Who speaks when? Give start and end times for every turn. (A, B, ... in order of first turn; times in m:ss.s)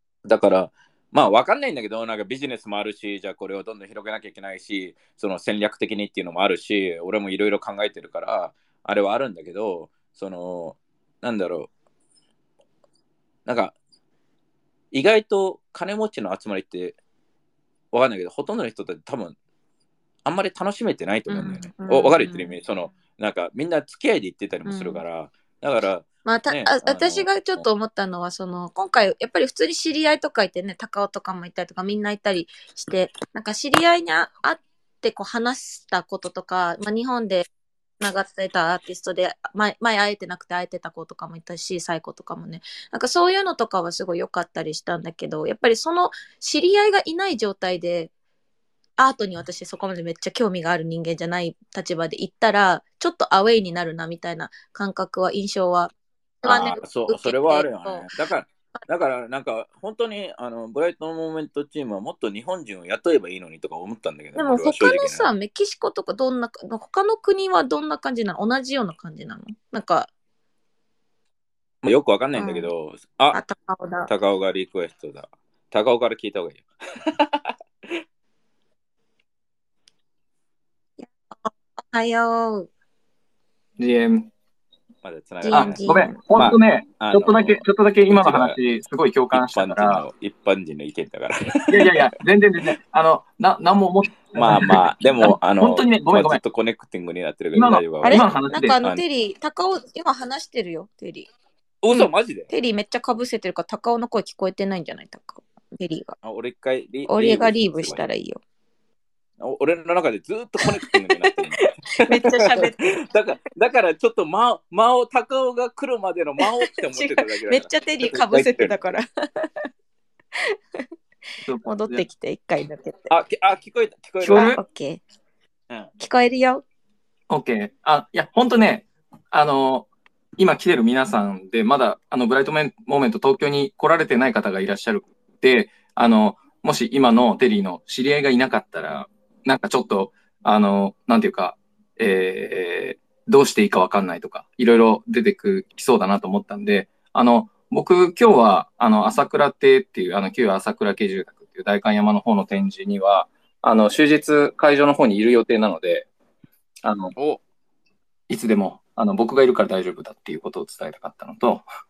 0:00.2-0:11.7 A
0:13.4-0:13.7 A
0:14.9-0:17.0 A
0:17.9-0:19.4 A
0:20.2-0:27.7 A
0:21.3-0:22.5 B
0:24.6-0:25.0 B
0:26.2-0:37.4 B
0:38.0-0:48.1 B
0:49.0-0:58.1 B
0:56.4-1:05.3 A
1:04.4-1:10.1 B
1:11.8-1:13.4 A
1:12.3-1:12.7 B
1:13.3-1:14.1 B
1:14.1-1:18.0 A
1:21.0-1:22.7 B
1:23.8-1:24.3 C
1:25.0-1:28.6 A
1:25.4-1:26.2 B
1:25.5-1:30.0 C
1:29.3-1:31.9 A
1:31.7-1:36.4 C
1:34.4-1:39.0 A
1:37.5-1:38.8 C
1:38.0-1:41.3 B
1:41.8-1:42.5 A
1:41.9-1:46.2 B
1:46.2-1:48.0 A
1:47.1-1:48.4 B
1:49.4-1:58.8 A
1:50.9-1:53.0 B
1:56.4-1:59.6 B
2:00.4-2:00.9 B
2:01.5-2:02.0 C
2:01.6-2:03.1 B
2:03.1-2:04.6 A
2:04.2-2:04.6 C
2:04.2-2:05.0 B
2:06.0-2:06.6 B
2:07.3-2:36.1 C
2:36.8-2:37.1 C
2:37.2-2:37.4 A
2:38.3-2:41.6 C